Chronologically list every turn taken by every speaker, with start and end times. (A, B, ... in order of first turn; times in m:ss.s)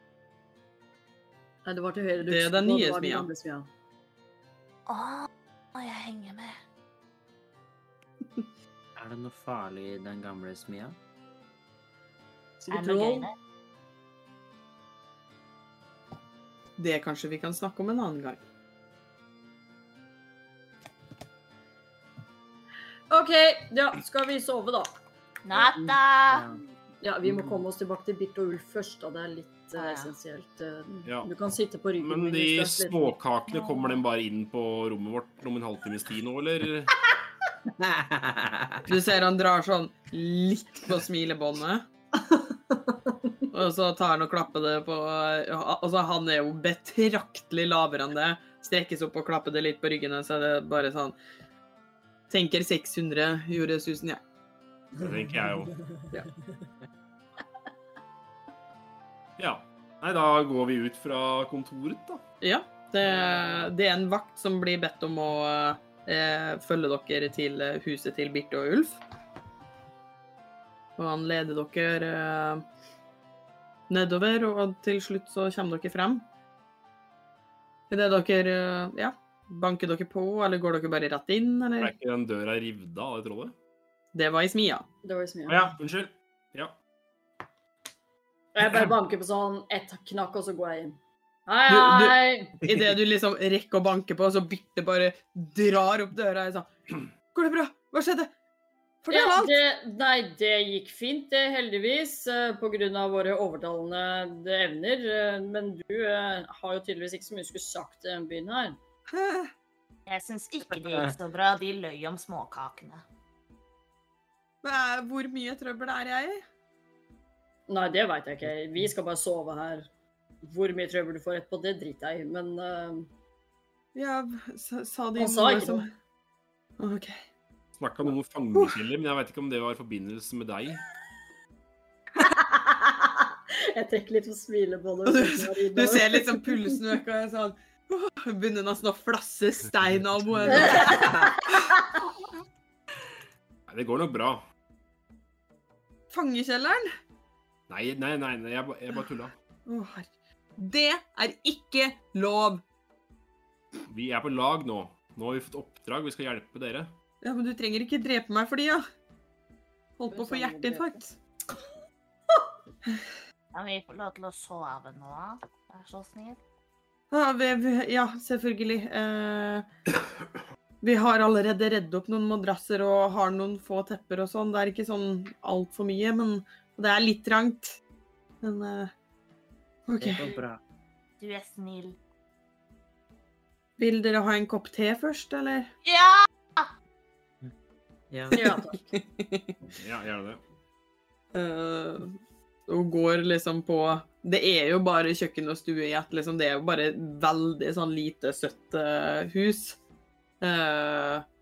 0:01.6-0:03.7 A
0:02.2-0:03.3 B
0:04.9-0:06.6 C
0:09.0-0:11.0 D
0:12.6-0:13.3 A
0:12.7-0:13.3 C
0:16.8-0:18.4 B
0:23.1-0:24.9 A
0:25.4-0:26.4 C
0:26.3-0:26.6 D
0:27.0-0:33.2 A
0:27.3-0:27.6 D
0:29.8-0:30.2 C
0:31.0-0:31.3 E
0:32.0-0:36.9 E
0:37.8-0:38.8 D
0:38.8-0:41.8 B
0:43.5-0:51.1 B
0:52.3-0:54.2 B
0:55.0-0:55.7 E
0:59.4-1:02.2 E
1:02.4-1:09.0 B
1:11.0-1:12.6 B
1:13.9-1:16.2 B
1:17.9-1:21.9 B
1:21.8-1:23.5 E
1:24.1-1:24.8 B
1:25.0-1:25.7 A
1:25.5-1:26.8 E
1:28.5-1:32.6 A
1:31.7-1:36.7 B
1:37.3-1:38.3 B
1:39.0-1:39.6 B
1:39.1-1:48.8 A
1:49.1-1:49.5 B
1:50.0-1:53.0 C
1:50.9-1:51.1 D
1:54.6-1:56.4 B
1:57.7-1:59.9 A
2:00.4-2:03.1 A
2:03.9-2:05.9 B
2:05.2-2:05.8 A
2:06.8-2:07.2 B
2:07.8-2:10.8 E
2:12.2-2:16.8 A
2:15.0-2:21.3 B
2:20.5-2:21.8 A
2:23.7-2:24.4 E
2:26.1-2:26.9 B
2:27.7-2:29.3 E
2:29.7-2:32.6 B
2:33.9-2:36.9 E
2:37.2-2:38.8 B
2:40.0-2:41.2 B
2:40.1-2:41.0 A
2:43.5-2:46.4 C
2:47.1-2:49.7 B
2:50.8-2:57.8 B
2:58.4-2:58.9 B
2:59.9-3:00.3 B
3:00.0-3:00.6 D
3:01.2-3:02.0 C
3:03.8-3:05.7 B
3:05.8-3:06.7 C
3:08.1-3:08.6 D
3:08.3-3:09.5 B
3:08.3-3:08.8 A
3:09.8-3:10.4 E
3:11.3-3:19.8 B
3:20.4-3:21.2 B